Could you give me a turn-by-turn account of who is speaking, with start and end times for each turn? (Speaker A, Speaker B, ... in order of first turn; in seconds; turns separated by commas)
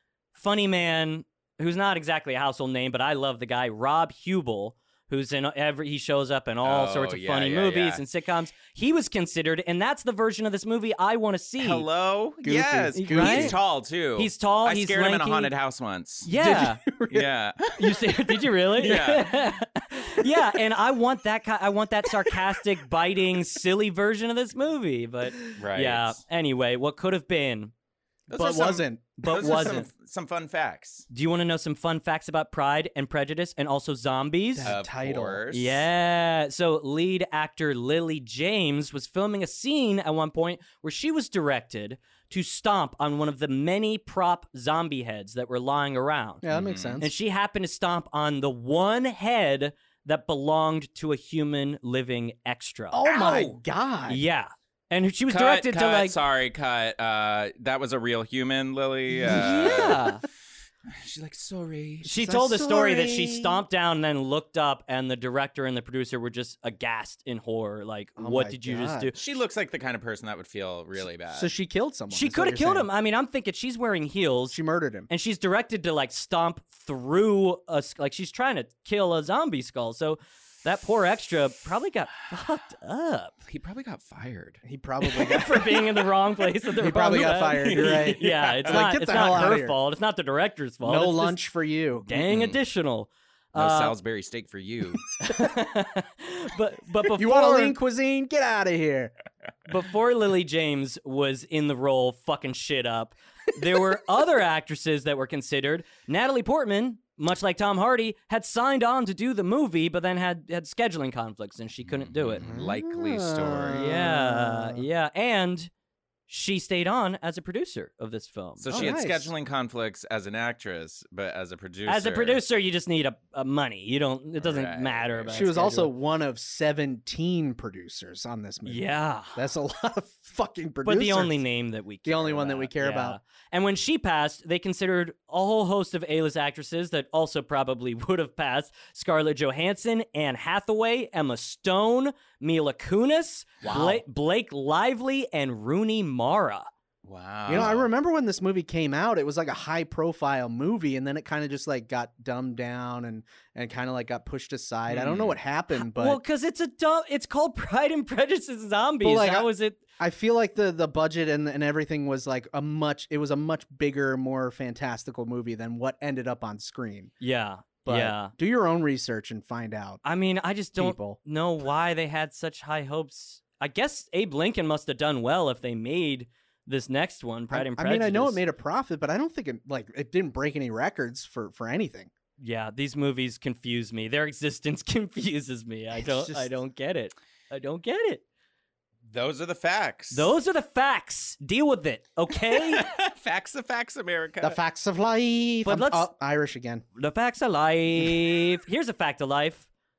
Speaker A: 0.3-11.8, Speaker B: 6.6-8.0, Speaker B: 11.6-16.3, Speaker C: 12.4-13.6, Speaker A: 12.9-13.6, Speaker A: 14.2-15.5, Speaker A: 16.2-16.8, Speaker C: 16.3-17.3, Speaker B: 17.1-18.1, Speaker A: 17.8-27.7, Speaker B: 18.7-19.5, Speaker C: 20.2-20.6, Speaker C: 22.0-22.6, Speaker B: 25.6-26.2, Speaker B: 28.3-31.1, Speaker C: 28.3-29.8, Speaker A: 29.2-29.9, Speaker A: 31.1-34.7, Speaker C: 34.5-35.4, Speaker B: 34.6-35.9, Speaker A: 35.5-46.5, Speaker C: 46.4-47.1, Speaker B: 46.5-47.0, Speaker A: 47.0-53.5, Speaker C: 52.9-54.2, Speaker A: 54.1-56.2, Speaker B: 55.3-60.1, Speaker C: 59.1-60.1, Speaker A: 59.2-60.2, Speaker B: 60.9-62.1, Speaker A: 62.0-69.1, Speaker C: 62.1-63.6, Speaker C: 68.2-69.1, Speaker B: 69.1-71.5, Speaker C: 71.3-72.9, Speaker A: 72.1-83.3, Speaker C: 74.5-75.1, Speaker B: 83.5-84.6, Speaker C: 84.6-86.1, Speaker A: 85.0-91.4, Speaker C: 86.7-89.8, Speaker B: 87.5-88.9, Speaker C: 90.8-92.1, Speaker A: 92.0-93.9, Speaker B: 92.1-92.6, Speaker B: 93.5-95.0, Speaker A: 95.2-97.8, Speaker C: 97.1-99.1, Speaker A: 99.7-112.5, Speaker B: 111.8-113.9, Speaker C: 112.4-114.8, Speaker A: 113.7-115.7, Speaker A: 116.3-118.9, Speaker B: 118.6-122.4, Speaker C: 118.7-119.3, Speaker A: 121.9-125.9, Speaker B: 124.4-125.5, Speaker C: 125.3-131.4, Speaker A: 128.7-129.4, Speaker A: 130.8-146.7, Speaker C: 132.0-133.2, Speaker C: 143.6-144.0, Speaker B: 147.0-147.9, Speaker C: 147.5-156.2, Speaker B: 154.9-155.4, Speaker A: 155.7-159.8, Speaker C: 159.0-167.1, Speaker A: 167.2-168.3, Speaker C: 167.8-170.0, Speaker A: 170.0-178.4, Speaker C: 170.8-171.2, Speaker C: 177.5-182.1, Speaker A: 182.4-188.2, Speaker C: 185.9-186.5, Speaker B: 189.1-190.3, Speaker A: 190.1-192.9, Speaker B: 192.5-194.6, Speaker C: 194.4-196.8, Speaker A: 195.7-196.1, Speaker A: 196.9-199.7